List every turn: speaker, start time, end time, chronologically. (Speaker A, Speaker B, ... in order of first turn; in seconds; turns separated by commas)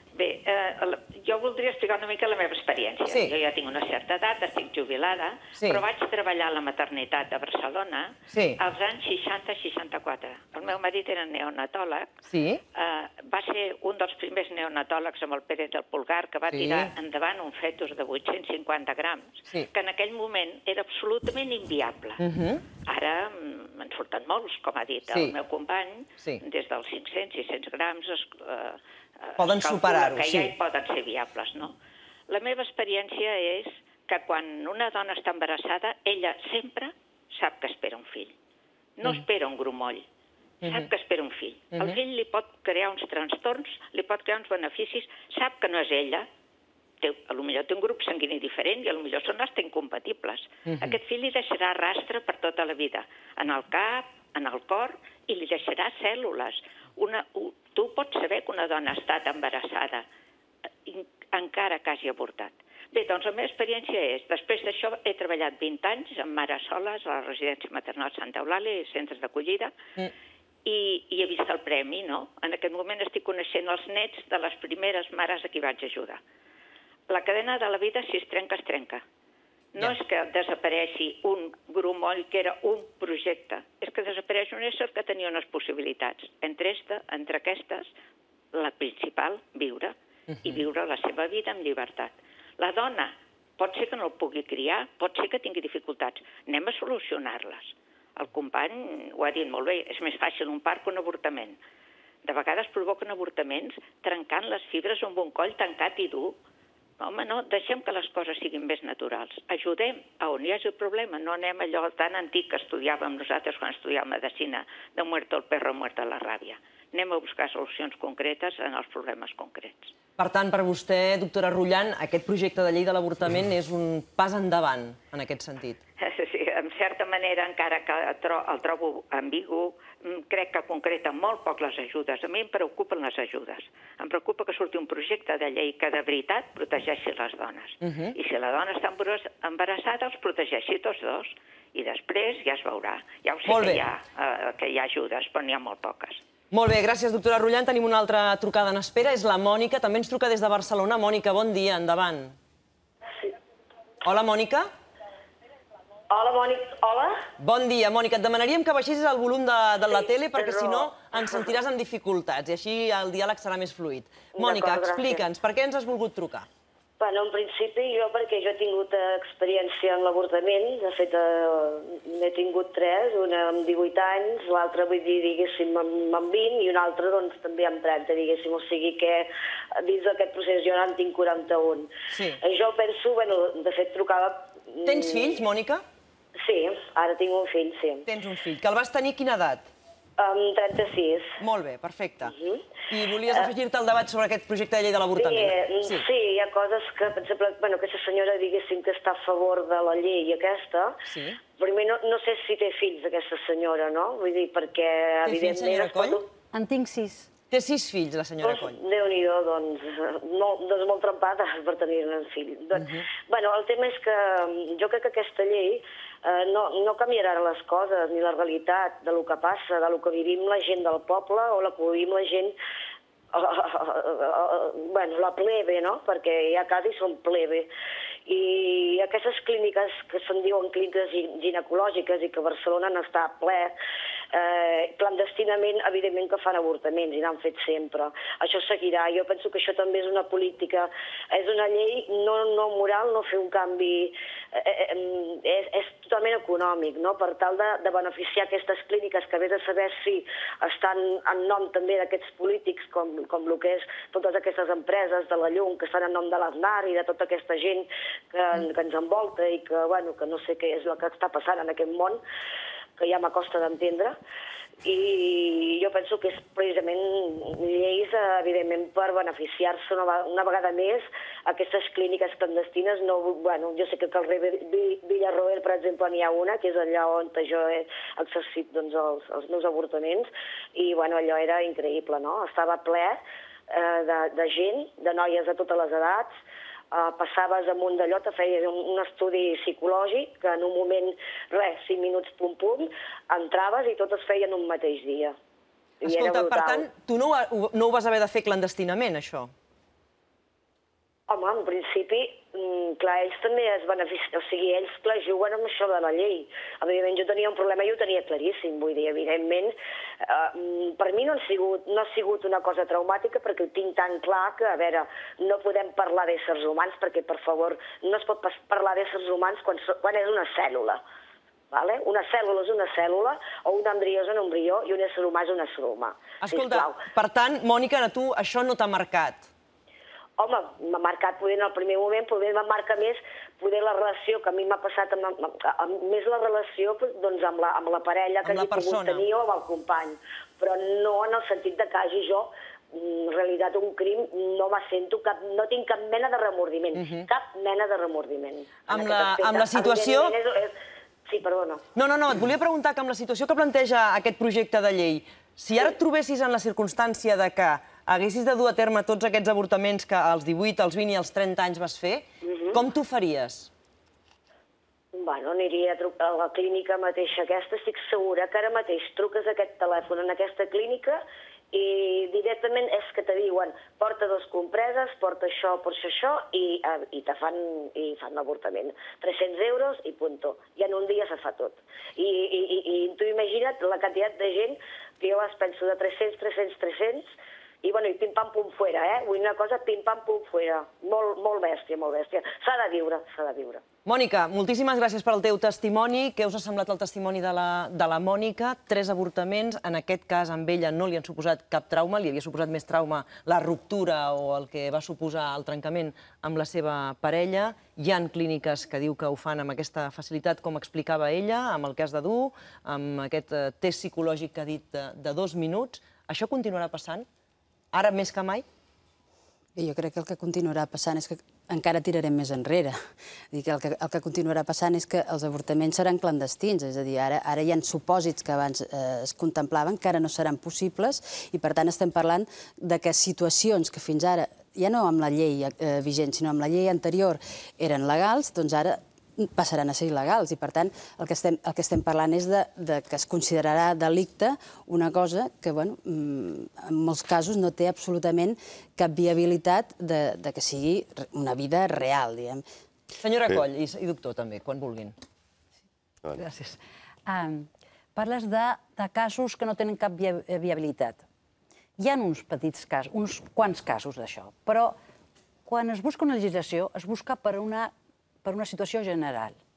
Speaker A: 0.1-12.2, Speaker B: 3.1-3.3, Speaker B: 5.5-5.8, Speaker B: 8.3-8.6, Speaker B: 12.3-12.6, Speaker A: 12.8-22.2, Speaker B: 16.5-16.9, Speaker B: 22.2-22.6, Speaker A: 22.8-31.7, Speaker B: 25.1-25.4, Speaker B: 29.4-30.5, Speaker A: 32.3-38.3, Speaker A: 39.0-40.0, Speaker B: 40.6-40.9, Speaker A: 40.6-46.3, Speaker A: 47.0-60.0, Speaker B: 50.7-50.9, Speaker A: 60.9-69.7, Speaker A: 70.7-76.2, Speaker A: 77.1-79.0, Speaker A: 79.8-87.9, Speaker A: 88.5-101.6, Speaker A: 102.2-106.4, Speaker A: 107.0-119.9, Speaker B: 120.2-125.8, Speaker A: 126.0-146.2, Speaker B: 137.8-138.2, Speaker B: 143.5-143.9, Speaker B: 146.5-152.4, Speaker B: 154.0-154.7, Speaker C: 156.1-157.2, Speaker B: 157.4-166.5, Speaker C: 159.9-161.4, Speaker C: 164.4-165.2, Speaker C: 167.0-181.9, Speaker B: 182.1-182.4, Speaker C: 182.4-185.4, Speaker B: 184.8-185.8, Speaker C: 186.4-188.1, Speaker B: 188.1-189.7, Speaker C: 190.2-191.4, Speaker B: 191.4-192.3, Speaker C: 192.2-192.6, Speaker B: 192.9-196.1, Speaker C: 195.2-201.0, Speaker B: 201.1-201.4, Speaker C: 201.6-206.3, Speaker B: 205.2-206.2, Speaker D: 206.5-207.3, Speaker B: 207.5-208.8, Speaker C: 208.4-222.6, Speaker B: 212.8-213.1, Speaker C: 223.3-227.7, Speaker C: 228.3-233.7, Speaker C: 234.3-262.2, Speaker C: 263.0-264.1, Speaker C: 264.8-283.2, Speaker C: 283.7-286.3, Speaker C: 286.9-295.4, Speaker B: 296.0-299.5, Speaker C: 296.0-296.9, Speaker C: 301.3-321.0, Speaker C: 321.7-327.0, Speaker B: 326.4-329.5, Speaker C: 330.4-350.8, Speaker B: 338.4-339.2, Speaker B: 346.9-347.3, Speaker B: 348.9-350.4, Speaker C: 351.3-351.8, Speaker B: 351.9-363.7, Speaker C: 362.4-362.8, Speaker C: 365.1-371.2, Speaker C: 371.7-387.3, Speaker C: 387.8-393.8, Speaker B: 394.1-417.3, Speaker B: 417.9-418.6, Speaker E: 419.8-423.0, Speaker E: 423.5-452.6, Speaker B: 453.2-455.1, Speaker D: 456.3-461.2, Speaker D: 462.0-465.0, Speaker D: 465.7-467.9, Speaker D: 468.4-469.6